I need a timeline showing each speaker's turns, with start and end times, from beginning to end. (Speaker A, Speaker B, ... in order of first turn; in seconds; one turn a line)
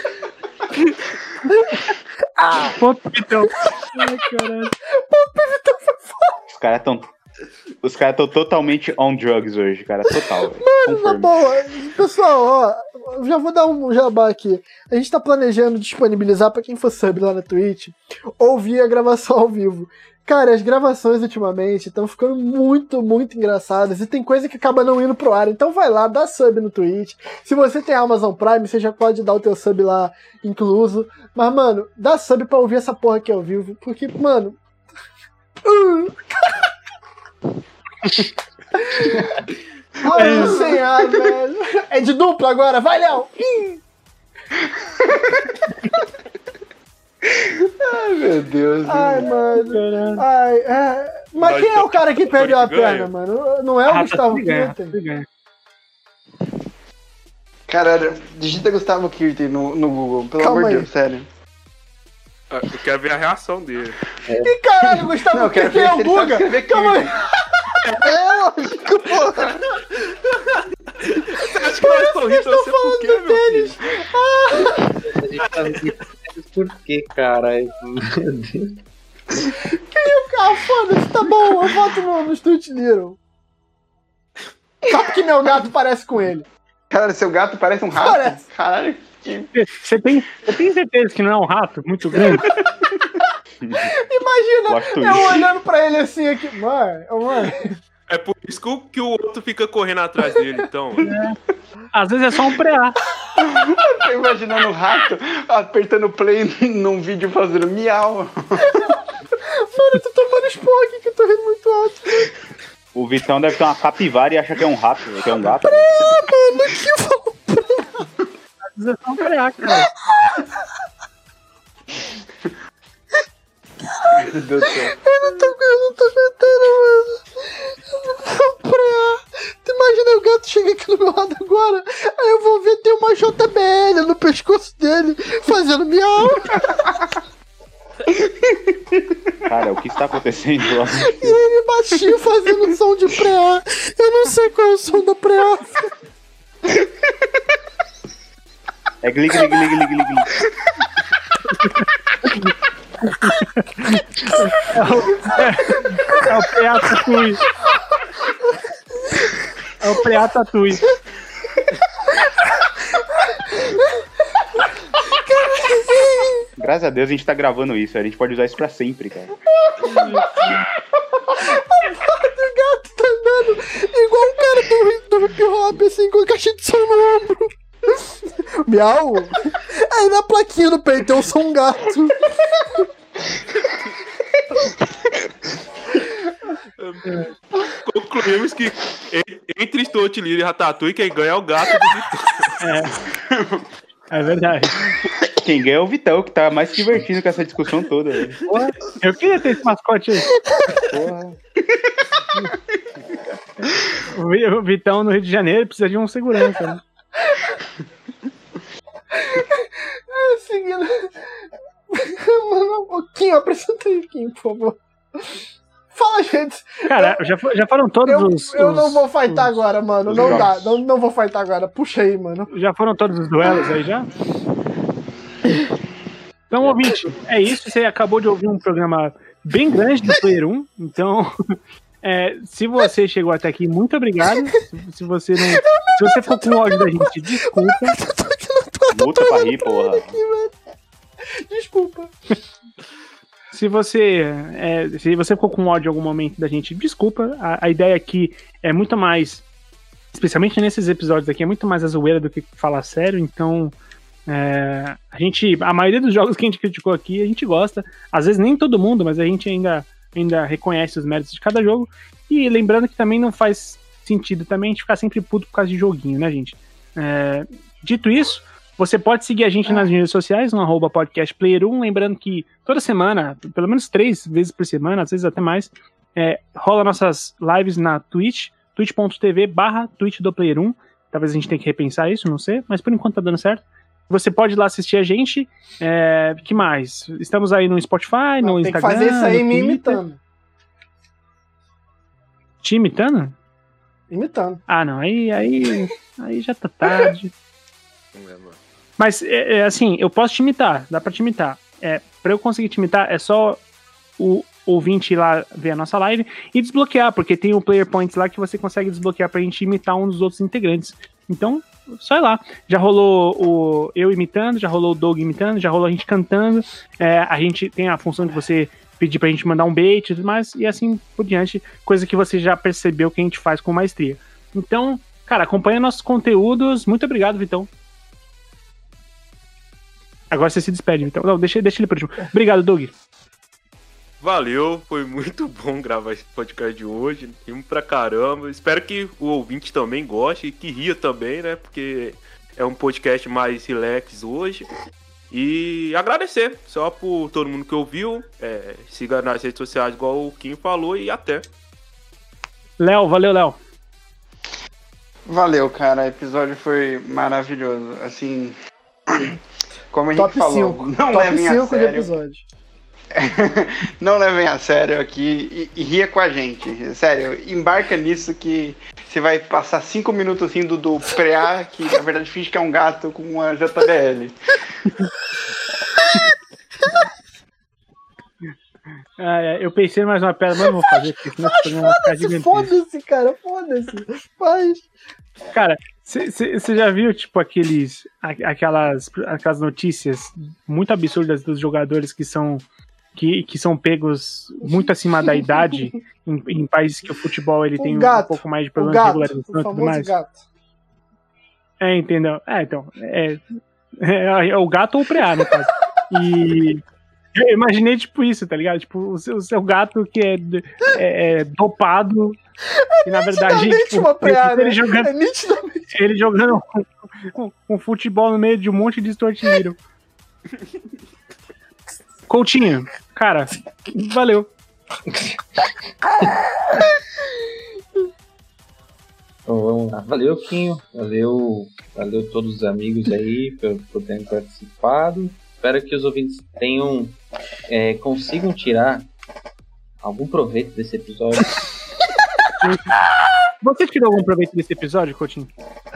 Speaker A: 1.5-2.8
Speaker B: 2.8-4.7
Speaker A: 4.9-6.4
Speaker C: 6.5-7.1
Speaker C: 7.8-11.5
Speaker A: 10.6-34.6
Speaker A: 35.6-36.7
Speaker A: 38.8-39.4
Speaker A: 40.0-43.8
Speaker D: 40.1-40.8
Speaker B: 40.1-40.6
Speaker D: 45.0-45.5
Speaker D: 47.3-49.3
Speaker A: 48.9-55.0
Speaker B: 49.5-50.2
Speaker E: 51.4-53.1
Speaker B: 53.9-55.2
Speaker D: 57.7-61.3
Speaker A: 60.4-60.9
Speaker E: 62.5-64.0
Speaker F: 64.3-65.0
Speaker A: 64.4-67.2
Speaker D: 65.2-67.3
Speaker A: 68.0-69.2
Speaker D: 68.7-69.6
Speaker E: 71.0-73.8
Speaker A: 71.5-74.9
Speaker F: 74.5-78.8
Speaker A: 79.5-83.2
Speaker A: 84.9-86.5
Speaker D: 86.9-89.5
Speaker A: 87.9-88.4
Speaker B: 89.5-92.5
Speaker C: 93.6-93.9
Speaker A: 93.8-97.7
Speaker C: 94.7-95.4
Speaker E: 98.1-101.1
Speaker B: 101.0-101.3
Speaker B: 101.9-103.0
Speaker D: 103.4-108.9
Speaker A: 108.8-112.3
Speaker C: 112.9-116.1
Speaker A: 115.7-118.1
Speaker B: 118.7-119.9
Speaker A: 120.1-120.6
Speaker D: 124.2-124.9
Speaker A: 124.2-136.8
Speaker D: 138.1-139.2
Speaker C: 139.5-141.4
Speaker A: 141.0-145.9
Speaker D: 146.7-146.9
Speaker C: 149.0-150.3
Speaker B: 151.7-152.5
Speaker B: 153.1-157.4
Speaker B: 159.8-160.8
Speaker A: 163.6-163.9
Speaker A: 165.1-166.4
Speaker C: 166.6-169.3
Speaker A: 169.8-170.2
Speaker A: 171.4-182.8
Speaker E: 186.8-192.6
Speaker B: 192.6-193.0
Speaker D: 193.2-193.6
Speaker B: 194.1-195.0
Speaker C: 195.3-198.4
Speaker B: 198.4-200.3
Speaker C: 200.8-201.3
Speaker B: 203.6-206.8
Speaker A: 209.1-211.1
Speaker A: 211.9-215.2
Speaker A: 215.9-217.2
Speaker B: 216.8-219.5
Speaker A: 218.0-222.5
Speaker C: 220.1-220.8
Speaker B: 222.5-224.1
Speaker B: 226.5-238.0
Speaker A: 235.7-237.1
Speaker A: 237.7-240.5
Speaker C: 238.9-240.2
Speaker A: 241.5-242.1
Speaker B: 243.5-249.4
Speaker B: 250.1-253.7
Speaker B: 254.3-290.0
Speaker A: 288.4-290.2
Speaker B: 292.6-293.3
Speaker A: 294.1-294.6
Speaker B: 294.7-297.3
Speaker E: 298.1-298.6
Speaker B: 299.0-303.6
Speaker B: 304.2-327.7
Speaker B: 330.3-332.9
Speaker E: 334.2-344.7
Speaker E: 345.3-351.4
Speaker B: 352.8-353.6
Speaker D: 355.3-358.6
Speaker D: 359.1-359.4
Speaker D: 359.9-362.1
Speaker A: 360.1-362.4
Speaker D: 363.1-374.3
Speaker B: 379.2-382.8
Speaker A: 381.4-384.8
Speaker B: 385.5-400.1
Speaker A: 397.8-400.4
Speaker B: 401.8-403.4
Speaker B: 404.0-406.8
Speaker B: 407.3-412.4
Speaker A: 412.8-415.9
Speaker B: 413.1-415.1
Speaker B: 415.9-419.8
Speaker B: 422.3-424.5
Speaker F: 425.1-425.6
Speaker F: 429.5-439.1
Speaker F: 440.0-441.7
Speaker B: 443.6-445.5